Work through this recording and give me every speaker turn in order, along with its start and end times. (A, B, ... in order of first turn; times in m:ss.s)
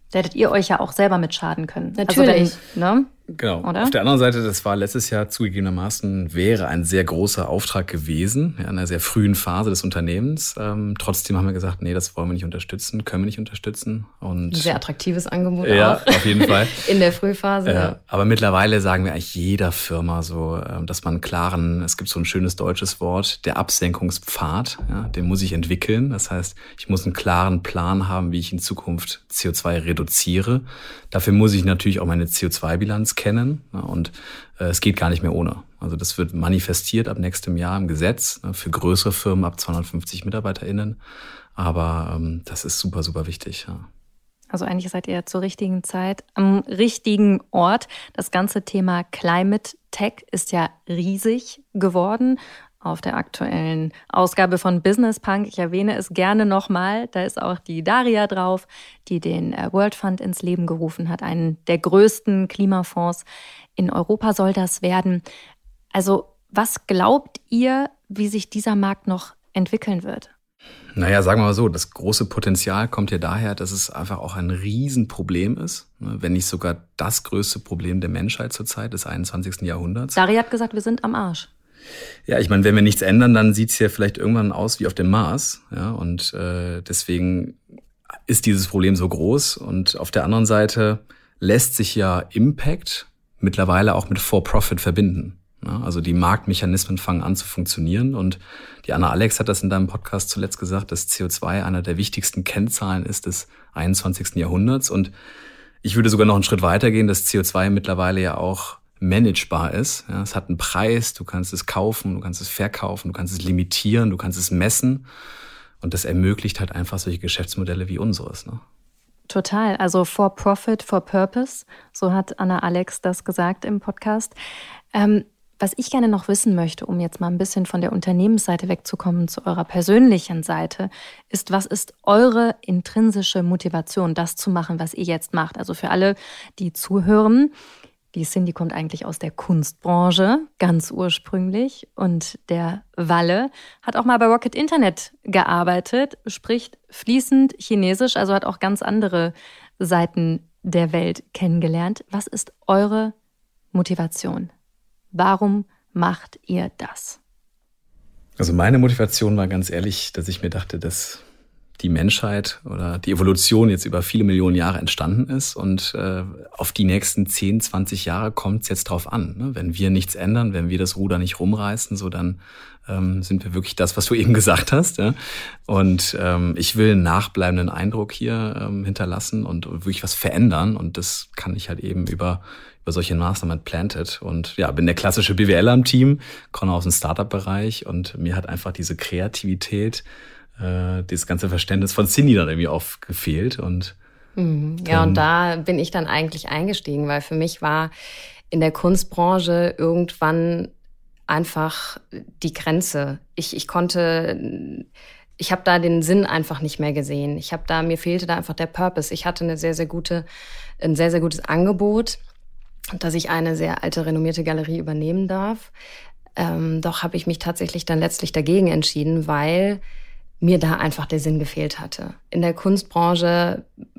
0:00.1-0:03.1 A
0:02.0-0:02.6 B
0:03.3-0:14.8 C
0:03.6-0:04.0 A
0:14.5-0:18.0 B
0:15.6-0:16.8 C
0:17.6-0:41.0 C
0:41.6-0:43.9 C
0:44.5-1:03.2 A
1:03.8-1:05.2 A
1:05.9-1:10.3 A
1:11.0-1:20.2 C
1:20.2-1:21.5 A
1:22.3-1:27.6 C
1:28.3-1:45.1 C
1:45.8-1:55.1 C
1:55.8-1:58.6 C
1:59.3-2:04.3 A
2:04.9-2:17.5 A
2:18.1-2:33.2 A
2:33.7-2:34.5 A
2:35.1-2:37.2 A
2:38.4-2:41.2 C
2:41.8-3:10.0 C
3:10.6-3:14.0 C
3:14.4-3:17.9 B
3:14.9-3:15.2 C
3:18.5-3:20.7 B
3:21.3-3:24.9 B
3:25.4-3:30.2 B
3:30.8-3:32.2 B
3:33.0-3:35.7 B
3:36.4-3:39.8 B
3:40.4-3:43.6 B